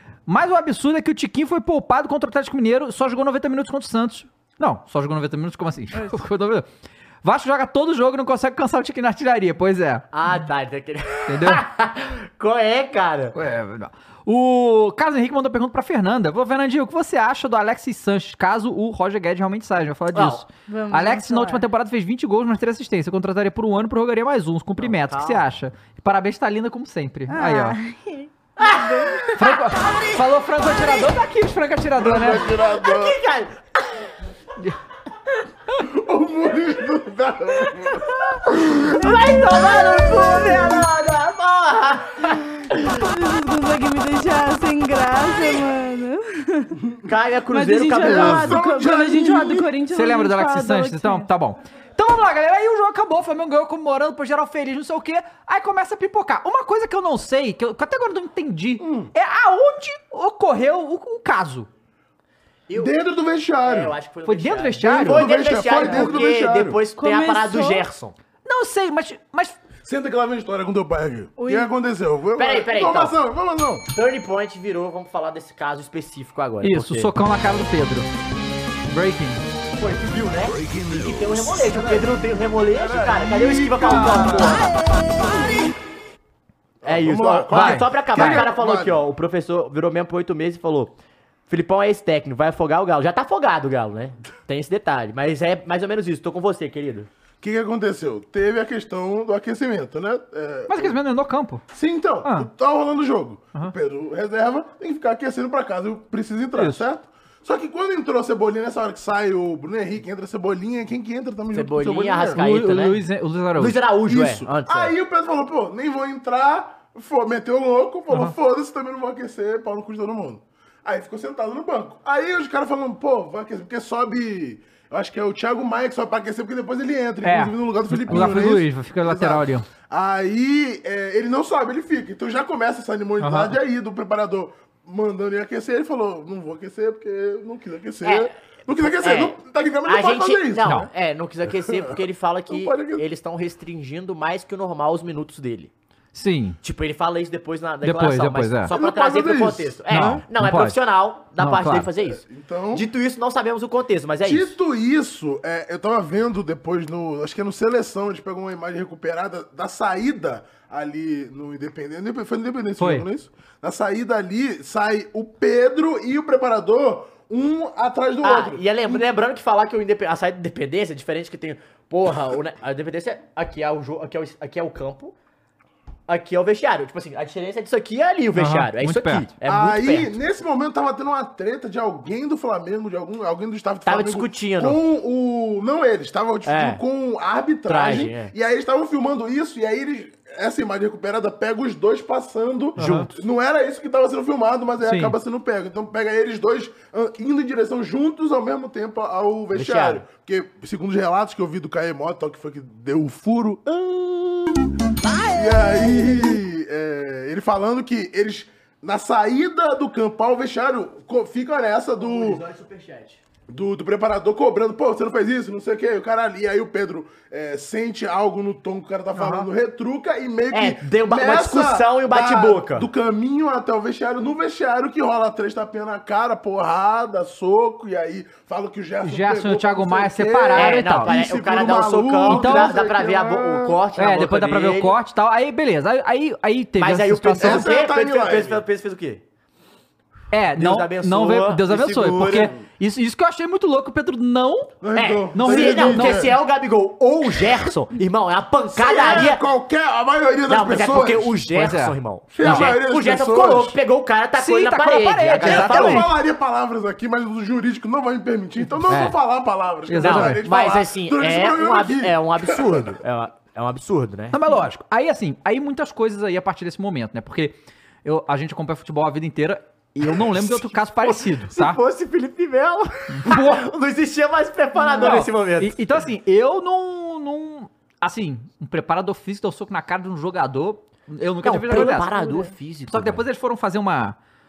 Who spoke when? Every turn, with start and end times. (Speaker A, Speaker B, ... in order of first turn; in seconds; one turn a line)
Speaker A: 0.3-6.7
Speaker A: 7.2-10.1
Speaker B: 10.1-13.3
Speaker A: 11.3-11.6
Speaker A: 13.3-27.8
Speaker B: 20.1-20.4
Speaker C: 20.7-21.6
Speaker B: 24.8-25.4
Speaker C: 27.3-29.3
Speaker B: 28.6-29.6
Speaker A: 29.4-32.5
Speaker D: 32.0-33.2
Speaker B: 32.5-33.6
Speaker D: 35.8-38.0
Speaker B: 38.9-42.8
Speaker A: 38.9-40.9
Speaker C: 42.7-46.8
Speaker B: 47.0-48.6
Speaker C: 47.5-51.3
Speaker D: 48.0-49.7
Speaker A: 49.9-61.7
Speaker D: 58.8-59.1
Speaker B: 62.7-62.9
Speaker D: 62.7-63.9
Speaker B: 63.6-68.2
Speaker A: 64.2-65.3
Speaker D: 64.8-66.8
Speaker C: 65.8-66.1
Speaker C: 67.0-67.8
Speaker A: 68.4-69.6
Speaker D: 69.8-73.9
Speaker C: 71.4-71.7
Speaker B: 72.4-73.1
Speaker B: 73.9-77.1
Speaker A: 76.6-78.1
Speaker A: 78.9-79.4
Speaker B: 79.7-84.7
Speaker D: 80.6-85.5
Speaker A: 83.8-84.4
Speaker D: 86.8-89.0
Speaker B: 86.8-90.9
Speaker A: 87.5-88.4
Speaker B: 91.5-97.1
Speaker D: 97.4-101.0
Speaker A: 100.7-101.6
Speaker D: 101.7-112.4
Speaker A: 102.2-102.5
Speaker A: 106.5-106.8
Speaker B: 111.5-113.0
Speaker A: 112.3-113.8
Speaker B: 113.6-114.9
Speaker D: 114.1-140.9
Speaker A: 127.2-129.7
Speaker A: 133.2-133.6
Speaker B: 138.0-145.7
Speaker D: 141.5-143.0
Speaker A: 146.1-146.6
Speaker B: 146.6-154.5
Speaker A: 147.8-148.7
Speaker D: 148.7-150.1
Speaker A: 149.9-150.8
Speaker A: 151.4-151.9
Speaker D: 152.1-152.8
Speaker D: 154.2-169.0
Speaker A: 162.8-163.1
Speaker B: 168.2-175.1
Speaker B: 176.1-180.1
Speaker A: 178.3-179.3
Speaker D: 179.4-204.7
Speaker B: 183.8-184.8
Speaker B: 186.4-186.8
Speaker B: 187.7-188.3
Speaker A: 192.8-193.1
Speaker B: 192.8-193.1
Speaker A: 194.8-195.1
Speaker B: 199.5-200.0
Speaker D: 205.2-212.4
Speaker B: 212.0-213.2
Speaker D: 213.5-233.8
Speaker A: 219.2-219.4
Speaker B: 220.5-222.9
Speaker A: 229.0-231.1
Speaker B: 230.5-234.9
Speaker A: 232.2-232.8
Speaker A: 234.0-237.7
Speaker B: 236.8-239.2
Speaker D: 237.4-238.6
Speaker A: 240.3-244.8
Speaker B: 240.6-242.5
Speaker D: 242.1-242.6
Speaker D: 244.8-246.3
Speaker B: 244.9-249.4
Speaker A: 245.3-246.3
Speaker D: 248.7-251.3
Speaker B: 250.5-256.1
Speaker A: 251.5-252.7
Speaker D: 252.3-253.8
Speaker A: 254.3-256.1
Speaker D: 255.4-262.9
Speaker A: 259.9-260.4
Speaker B: 260.0-264.4
Speaker A: 264.3-271.8
Speaker B: 270.1-275.8
Speaker A: 273.1-273.6
Speaker C: 274.8-275.1
Speaker A: 275.0-282.1
Speaker B: 281.4-283.2
Speaker C: 282.1-282.5
Speaker A: 282.9-284.2